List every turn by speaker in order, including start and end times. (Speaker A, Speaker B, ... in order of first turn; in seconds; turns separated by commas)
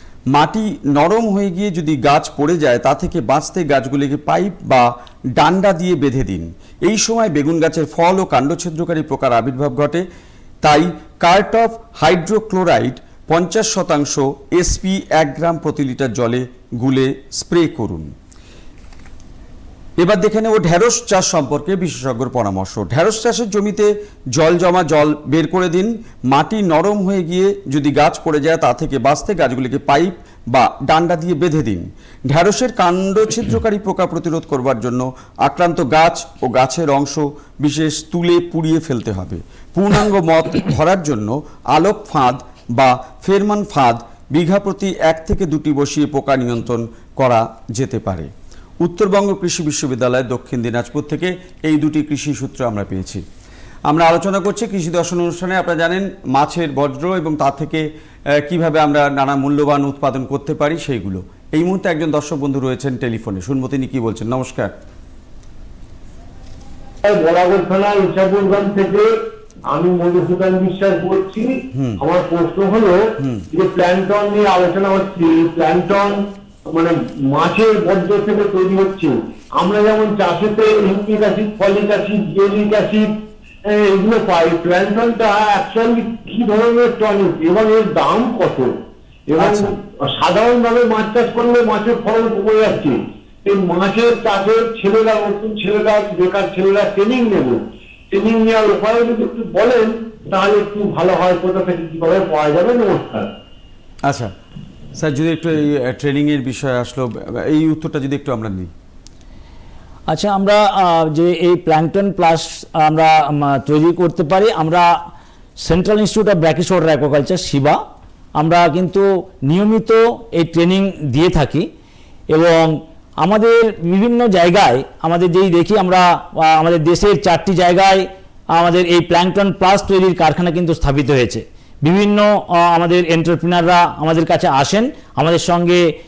Speaker A: 0.3-10.1, Speaker A: 10.6-18.1, Speaker A: 20.0-48.3, Speaker A: 48.8-53.2, Speaker A: 53.9-57.9, Speaker A: 58.4-64.7, Speaker B: 67.0-69.1, Speaker B: 69.7-83.1, Speaker A: 71.7-72.0, Speaker A: 73.2-73.5, Speaker B: 83.7-88.8, Speaker B: 89.3-103.3, Speaker A: 89.4-89.7, Speaker A: 104.0-104.3, Speaker A: 105.0-108.7, Speaker C: 110.1-114.9, Speaker C: 115.6-117.8, Speaker C: 118.4-121.7, Speaker C: 122.3-135.9